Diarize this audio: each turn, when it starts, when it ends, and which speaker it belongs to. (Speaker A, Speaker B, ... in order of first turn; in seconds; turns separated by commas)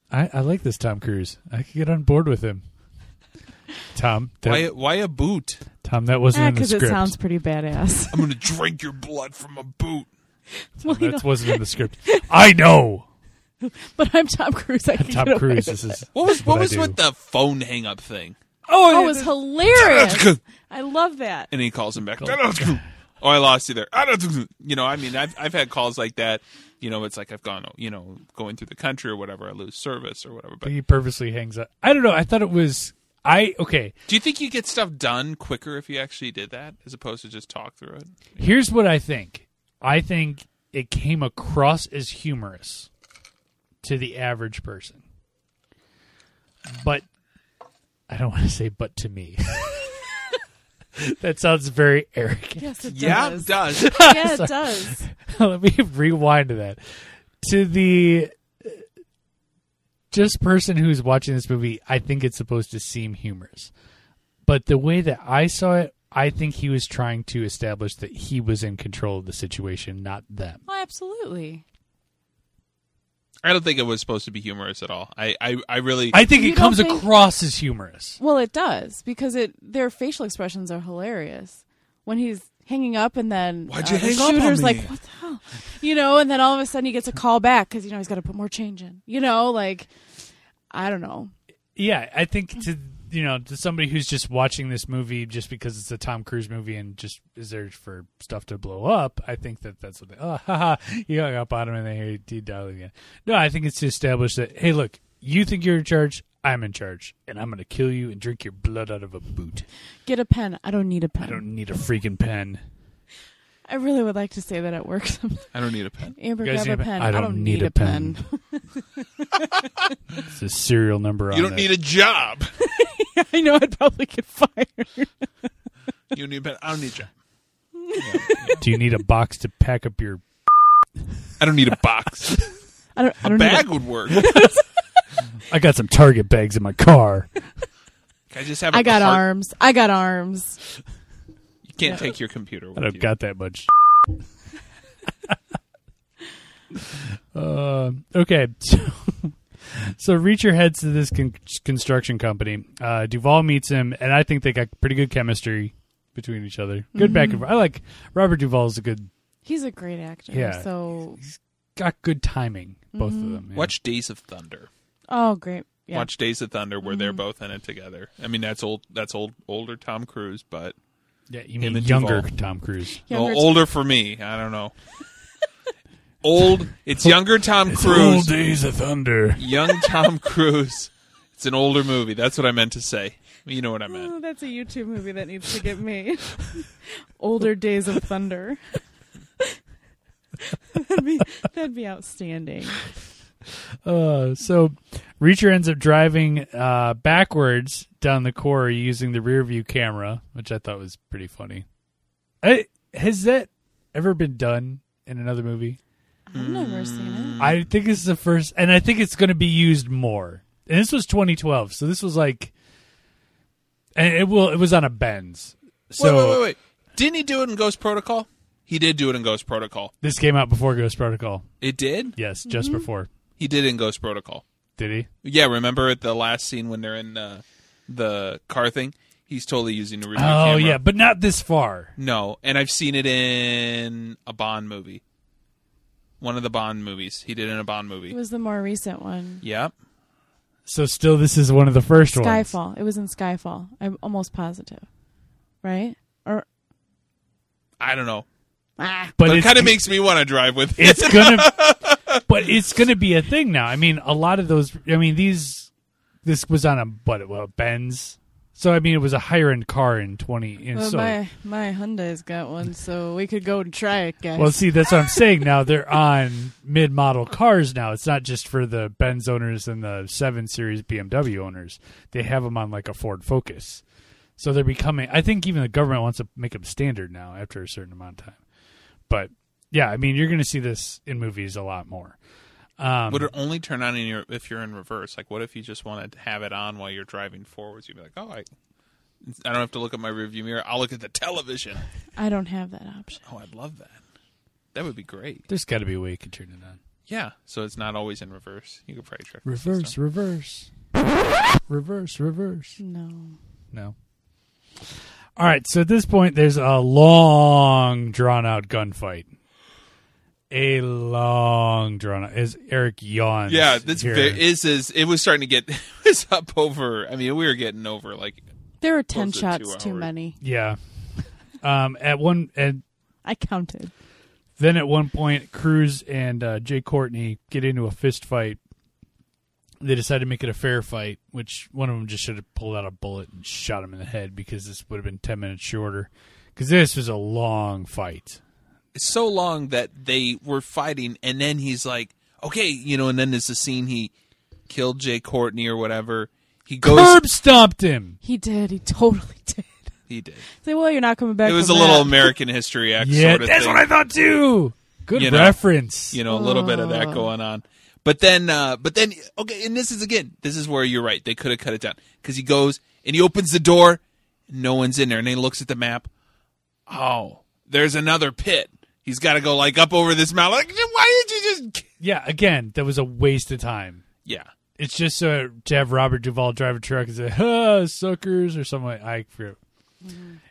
Speaker A: 0.1-2.6, Speaker A: 3.9-4.7, Speaker B: 4.4-5.6, Speaker A: 5.8-7.1, Speaker C: 6.3-8.3, Speaker B: 8.1-10.1, Speaker C: 10.5-12.3, Speaker A: 10.8-13.1, Speaker C: 13.6-16.0, Speaker A: 15.0-17.0, Speaker B: 16.1-18.4, Speaker A: 18.7-19.3, Speaker C: 18.9-21.5, Speaker B: 19.7-20.4, Speaker B: 21.5-30.7, Speaker A: 22.2-22.8, Speaker A: 30.6-33.9, Speaker B: 34.1-38.4, Speaker A: 38.4-42.9, Speaker A: 43.8-45.0, Speaker A: 46.7-47.0, Speaker A: 48.1-50.1, Speaker A: 51.0-58.8, Speaker C: 52.6-55.1, Speaker B: 52.9-53.9, Speaker A: 60.1-63.7, Speaker A: 64.4-70.6, Speaker C: 70.7-71.6, Speaker B: 73.4-76.2, Speaker A: 76.1-78.2, Speaker C: 76.3-77.1, Speaker C: 78.2-89.9, Speaker B: 83.7-84.9, Speaker C: 90.7-91.3, Speaker A: 91.8-109.7, Speaker C: 110.0-111.4, Speaker A: 111.2-112.6, Speaker C: 113.7-115.5, Speaker B: 115.5-116.2, Speaker C: 116.1-119.7, Speaker A: 116.4-118.2, Speaker A: 120.3-121.7, Speaker B: 121.3-122.5, Speaker C: 122.6-125.3, Speaker B: 126.1-127.1, Speaker C: 127.8-128.6, Speaker B: 127.9-128.6, Speaker A: 128.6-130.2, Speaker B: 131.4-132.4, Speaker C: 132.9-134.6, Speaker B: 133.2-134.3, Speaker A: 135.5-137.3, Speaker B: 138.3-139.2, Speaker C: 138.7-140.6, Speaker B: 141.6-143.1, Speaker A: 142.8-143.7, Speaker A: 146.7-159.1, Speaker C: 156.9-157.4, Speaker C: 159.4-161.2, Speaker A: 160.3-160.7, Speaker A: 161.2-163.7, Speaker C: 162.9-163.4, Speaker B: 163.5-164.7, Speaker C: 165.1-166.1, Speaker B: 165.9-170.7, Speaker C: 166.8-167.2, Speaker A: 171.3-173.0, Speaker B: 171.6-172.3, Speaker C: 173.0-173.6, Speaker B: 173.1-174.7, Speaker B: 176.2-178.3, Speaker A: 177.7-180.1, Speaker B: 179.4-184.1, Speaker C: 183.9-188.8, Speaker C: 190.4-192.8, Speaker A: 193.8-201.7, Speaker A: 202.4-205.8, Speaker C: 206.3-207.4, Speaker B: 206.3-207.6, Speaker A: 207.4-212.5, Speaker A: 213.9-216.4, Speaker B: 216.0-219.9, Speaker A: 220.0-221.4, Speaker B: 221.6-222.1, Speaker A: 222.1-223.1, Speaker C: 222.5-222.8, Speaker B: 223.4-224.4, Speaker A: 224.8-225.1, Speaker B: 225.2-230.8, Speaker A: 230.1-231.9, Speaker B: 232.0-235.0, Speaker B: 236.2-238.2, Speaker C: 238.1-239.4, Speaker B: 239.4-239.7, Speaker A: 240.7-242.5, Speaker C: 242.1-244.9, Speaker C: 245.6-246.4, Speaker B: 247.8-248.2, Speaker C: 248.8-249.2, Speaker A: 249.2-249.8, Speaker B: 249.2-252.2, Speaker A: 250.8-251.6, Speaker A: 252.2-255.7, Speaker A: 256.2-261.2, Speaker C: 260.7-265.2, Speaker A: 264.4-273.8, Speaker A: 274.4-278.4, Speaker A: 279.1-282.2, Speaker A: 282.8-283.3, Speaker B: 283.1-288.5, Speaker B: 289.2-291.8, Speaker C: 292.1-293.2, Speaker B: 293.2-294.0, Speaker B: 294.7-295.4, Speaker A: 295.5-296.8, Speaker B: 297.1-299.9, Speaker A: 299.4-300.7, Speaker A: 301.6-302.8, Speaker C: 302.8-303.4, Speaker A: 305.4-309.3, Speaker A: 310.5-314.4, Speaker B: 313.5-318.4, Speaker C: 318.8-320.4, Speaker B: 319.1-320.1, Speaker A: 320.4-320.8, Speaker A: 321.6-322.8, Speaker C: 323.2-323.9, Speaker A: 324.6-328.6, Speaker A: 329.8-338.4, Speaker B: 338.9-344.1, Speaker B: 344.7-347.2, Speaker A: 346.8-348.2, Speaker C: 348.2-349.8, Speaker B: 350.1-350.4, Speaker C: 350.6-352.3, Speaker B: 351.4-353.8, Speaker A: 353.0-356.2, Speaker B: 355.1-355.6, Speaker B: 356.1-366.1, Speaker C: 356.2-357.3, Speaker B: 366.9-371.9, Speaker A: 372.0-374.0, Speaker B: 374.2-374.5, Speaker A: 374.8-379.6, Speaker C: 380.0-380.4